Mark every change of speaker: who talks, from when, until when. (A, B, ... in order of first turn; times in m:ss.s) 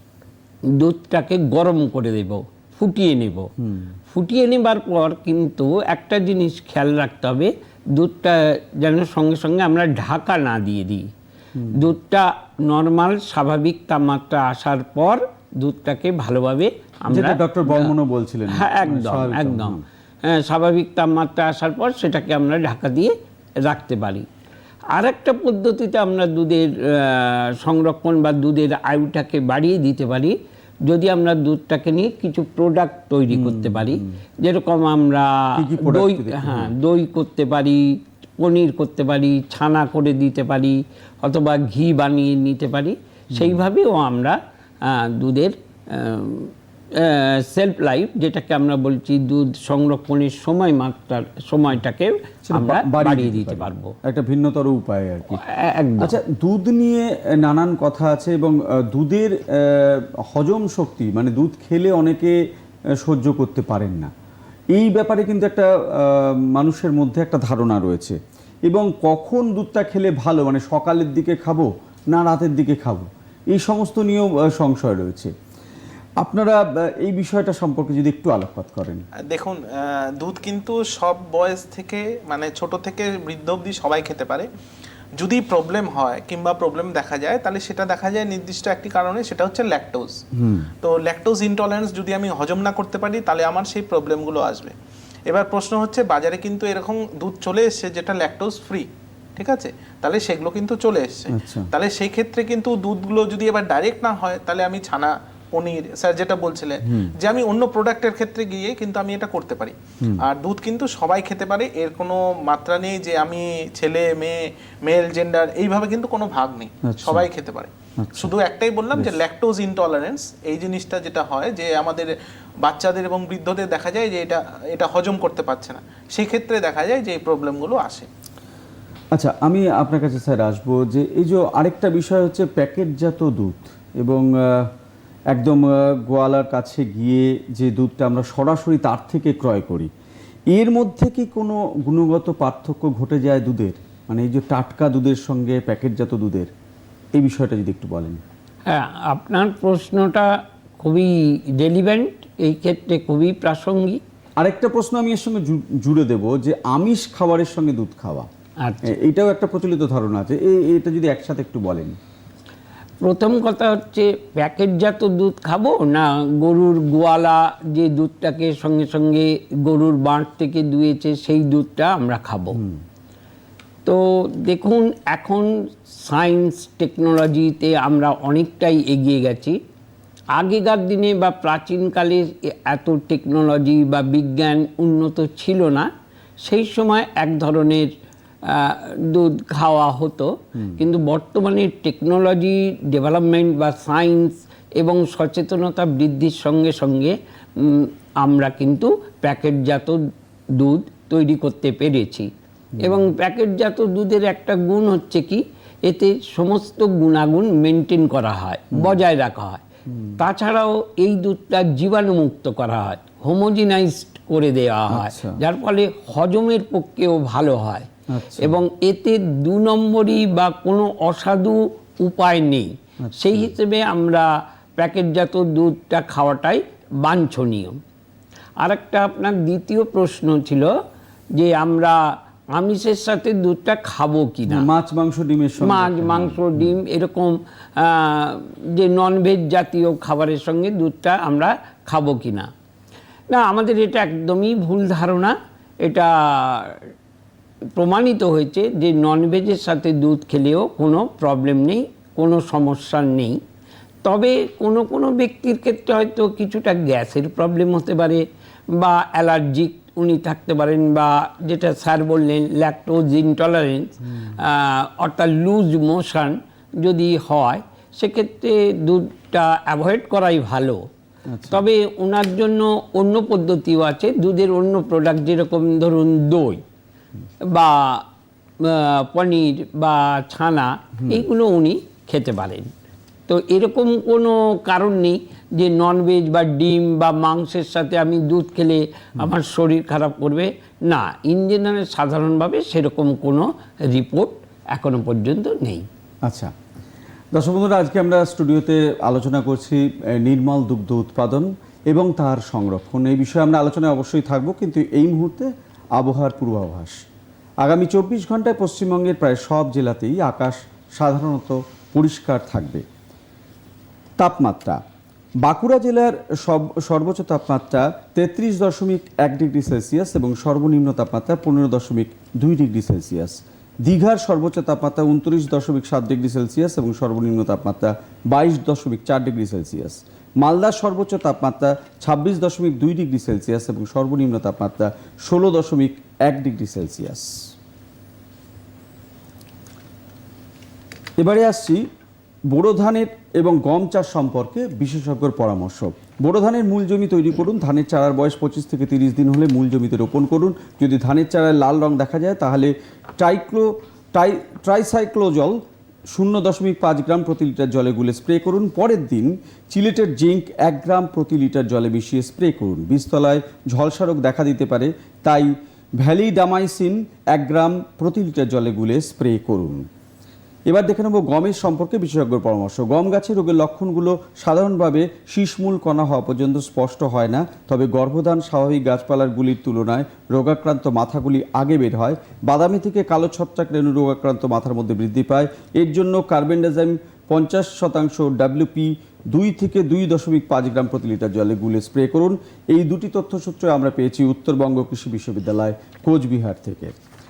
0:00.7-0:03.5 A
0:03.6-0:03.9 B
0:04.1-0:11.1 A
0:11.5-0:11.9 B
0:11.7-0:17.9 A
0:17.1-0:19.8 B
0:18.5-0:24.3 A
0:24.9-0:53.9 A
0:33.3-0:34.2 B
0:35.6-0:36.7 B
0:43.3-0:43.6 B
0:52.5-0:55.4 B
0:55.3-0:56.2 A
0:56.0-1:02.4 B
1:03.0-1:04.1 B
1:04.7-1:15.3 B
1:16.2-1:19.0 B
1:19.3-1:24.5 C
1:25.2-1:30.2 C
1:30.3-1:30.7 B
1:30.8-1:34.7 C
1:35.3-2:08.1 C
1:41.3-1:41.7 B
1:46.8-1:47.1 B
1:56.8-1:57.3 B
1:58.0-1:58.3 B
2:09.1-2:14.7 B
2:15.3-2:19.9 B
2:20.5-2:26.5 B
2:27.1-2:28.2 B
2:28.7-2:34.0 A
2:34.4-2:38.3 B
2:38.6-2:38.9 A
2:38.8-2:42.0 B
2:43.0-2:52.6 A
2:52.5-2:52.8 B
2:53.8-2:59.6 A
3:00.4-3:05.9 A
3:06.4-3:07.9 A
3:08.5-3:20.0 A
3:10.6-3:10.8 B
3:20.6-3:29.6 A
3:22.7-3:23.1 B
3:28.7-3:29.0 B
3:29.9-3:30.2 B
3:30.2-3:47.8 A
3:34.9-3:35.4 B
3:38.1-3:38.6 B
3:43.0-3:43.5 B
3:48.6-3:50.7 A
3:51.4-3:52.0 A
3:52.5-3:54.7 A
3:54.5-3:56.7 B
3:55.6-4:02.5 A
4:03.3-4:06.8 A
4:07.8-4:13.4 A
4:14.0-4:18.2 A
4:18.8-4:30.8 A
4:24.0-4:24.4 B
4:31.3-4:31.6 B
4:31.5-4:36.6 A
4:37.4-4:38.0 A
4:38.6-4:42.7 A
4:41.0-4:41.2 B
4:43.3-4:55.9 A
4:56.2-4:56.5 B
4:57.3-5:07.0 B
5:07.6-5:12.8 B
5:14.2-5:14.8 B
5:15.4-5:37.5 B
5:41.2-5:41.8 B
5:42.5-5:55.6 B
5:56.1-6:09.8 B
6:10.7-6:36.9 B